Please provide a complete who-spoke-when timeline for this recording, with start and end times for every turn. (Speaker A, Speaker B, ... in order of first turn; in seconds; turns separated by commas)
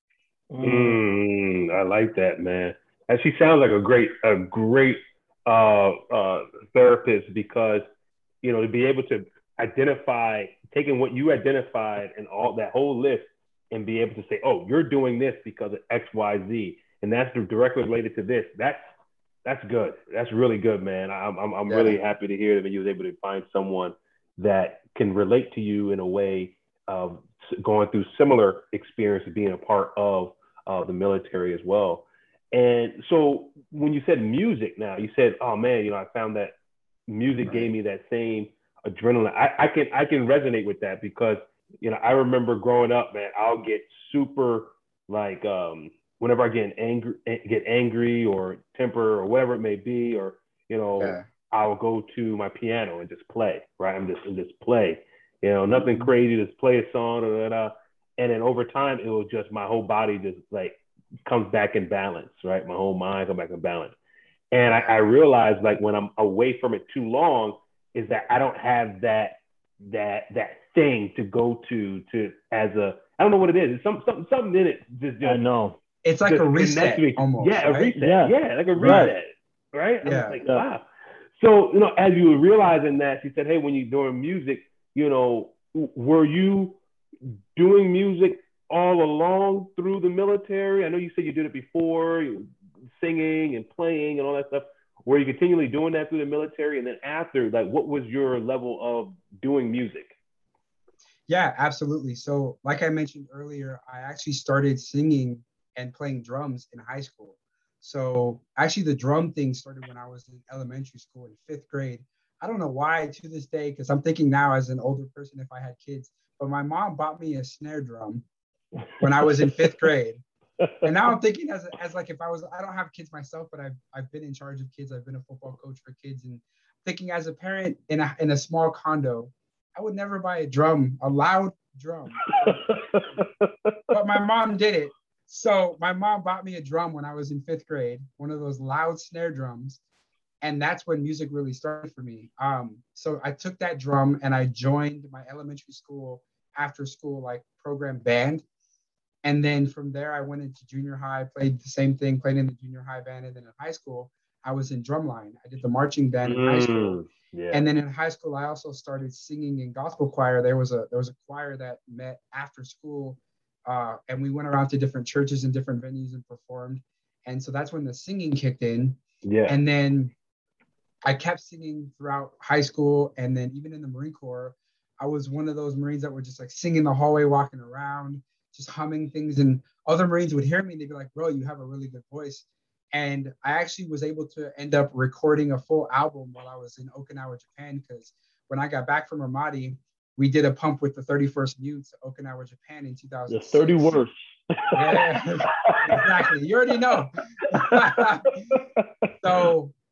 Speaker A: 0.5-1.0, Speaker B: 0.6-7.8, Speaker B: 8.4-18.8, Speaker B: 19.4-36.5, Speaker C: 21.7-22.0, Speaker B: 37.1-63.9, Speaker C: 37.4-37.7, Speaker C: 51.0-51.2, Speaker B: 64.5-75.4, Speaker A: 75.2-75.8, Speaker C: 76.0-77.9, Speaker B: 76.2-80.8, Speaker A: 77.9-79.1, Speaker C: 78.8-79.1, Speaker C: 80.0-80.4, Speaker B: 81.3-100.2, Speaker C: 101.3-118.2, Speaker C: 119.0-120.2, Speaker A: 119.2-119.5, Speaker C: 120.8-132.8, Speaker A: 132.5-133.5, Speaker C: 133.9-139.8, Speaker C: 140.4-148.4, Speaker C: 149.2-157.0, Speaker B: 156.2-157.7, Speaker C: 157.5-170.1, Speaker B: 169.2-169.6, Speaker C: 171.0-194.0, Speaker A: 193.3-196.1, Speaker C: 194.7-198.6, Speaker A: 197.5-199.1, Speaker C: 199.2-199.7